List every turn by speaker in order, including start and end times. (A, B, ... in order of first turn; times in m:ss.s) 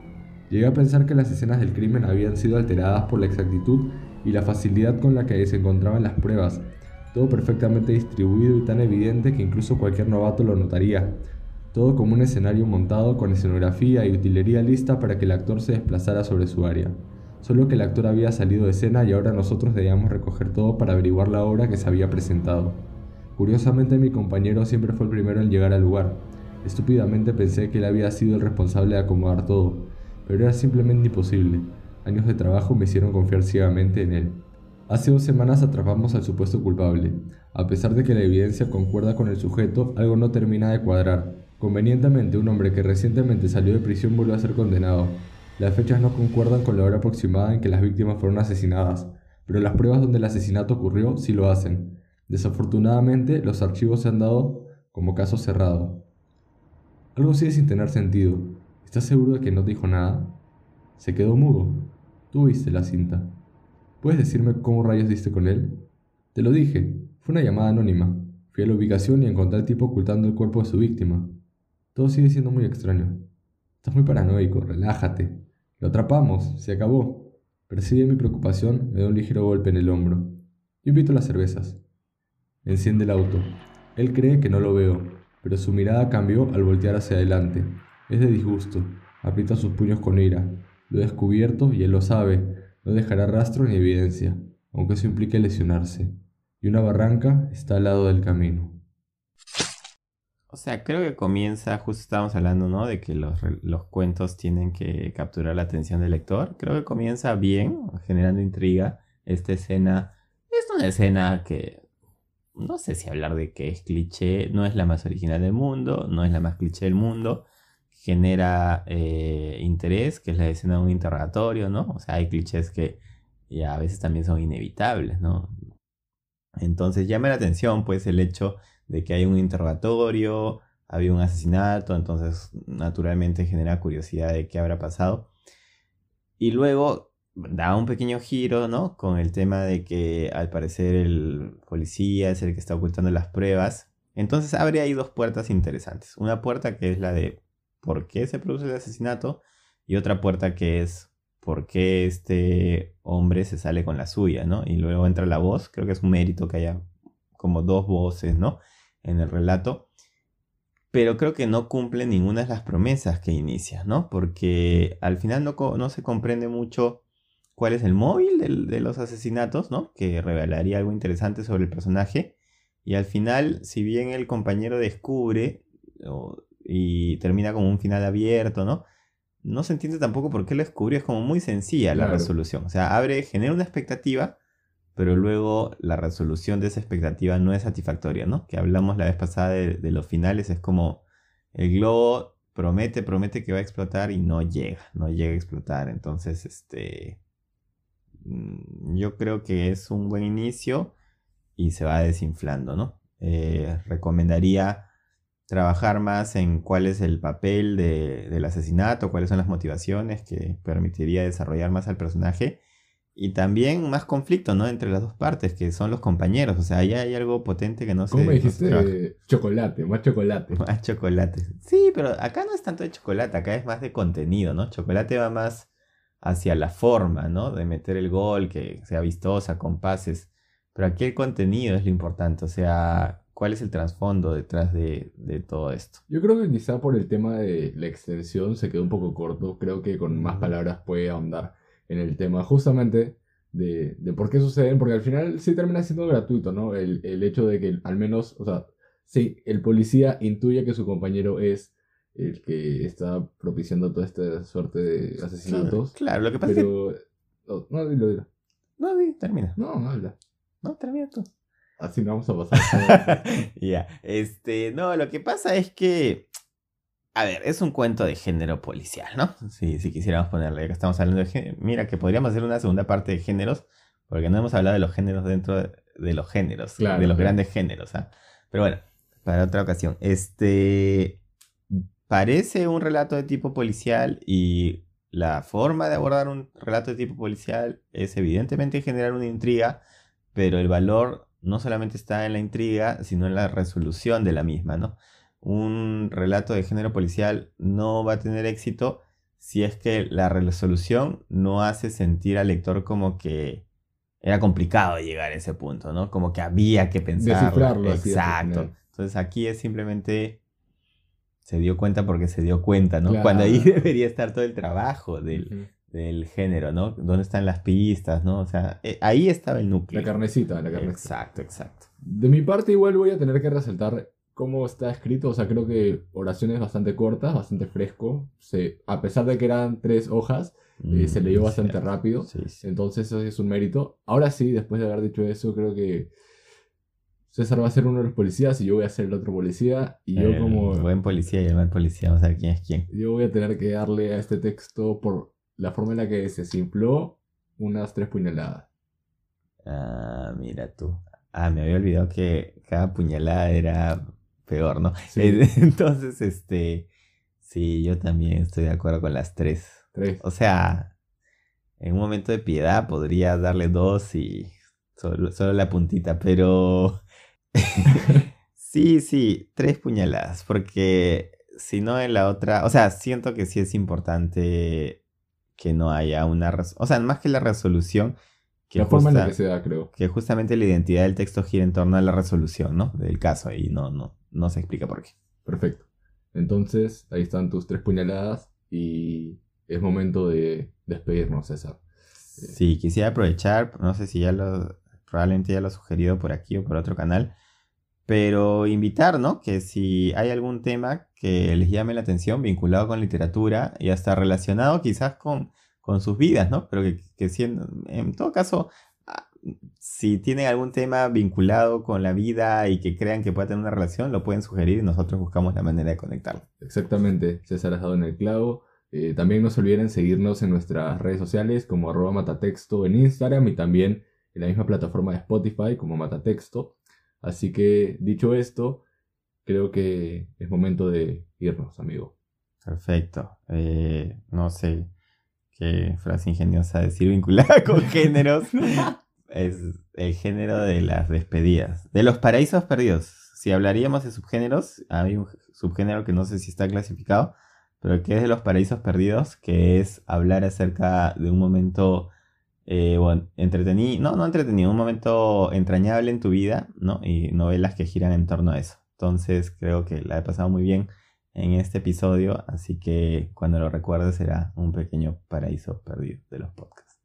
0:00.5-0:56.1 A
0:57.1-1:00.4 A
1:01.0-1:03.4 A
1:04.0-1:11.4 A
1:11.9-1:13.3 A
1:13.8-1:21.8 A
1:22.6-1:38.8 A
1:40.5-1:51.8 B
1:52.6-2:03.0 B
2:03.5-2:05.5 B
2:06.6-2:15.3 B
2:16.4-2:36.8 B
2:37.4-2:39.9 B
2:40.9-2:47.0 B
2:47.6-2:52.3 B
2:52.8-2:58.8 B
2:59.4-3:04.3 B
3:01.9-3:02.3 C
3:05.0-3:11.0 B
3:11.5-3:17.2 B
3:18.2-3:20.9 B
3:21.6-3:24.8 B
3:25.5-3:32.6 B
3:33.2-3:38.9 B
3:38.1-3:40.6 C
3:40.5-3:45.7 B
3:46.2-3:56.0 B
3:56.1-4:18.3 C
4:00.1-4:00.5 B
4:15.4-4:16.7 B
4:18.8-4:19.6 B
4:19.6-4:20.1 C
4:20.6-4:21.3 B
4:21.8-4:23.3 C
4:22.9-4:26.3 B
4:27.1-4:41.2 B
4:36.8-4:37.4 C
4:41.7-4:49.8 B
4:50.3-5:03.6 B
5:04.2-5:10.4 B
5:07.2-5:08.7 C
5:11.4-5:20.1 B
5:13.0-5:13.7 C
5:15.3-5:15.7 C
5:19.9-5:21.1 C
5:20.7-5:21.9 B
5:22.0-5:36.1 C
5:30.8-5:32.6 B
5:37.3-5:40.9 C
5:40.2-5:42.9 B
5:42.9-5:48.7 C
5:49.6-5:56.9 B
5:55.1-5:55.4 C
5:57.4-6:00.9 B
5:59.9-6:00.2 C
6:01.8-6:07.0 B
6:07.5-6:15.0 B
6:07.9-6:08.2 C
6:15.6-6:18.1 B
6:18.7-6:19.3 B
6:18.8-6:19.9 C
6:19.9-6:25.1 B
6:25.4-6:31.8 C
6:32.3-6:37.3 B
6:38.0-6:56.4 B
6:56.6-7:08.8 C
7:09.4-7:12.1 C
7:12.6-7:14.9 B
7:15.5-7:32.1 B
7:32.6-7:47.0 B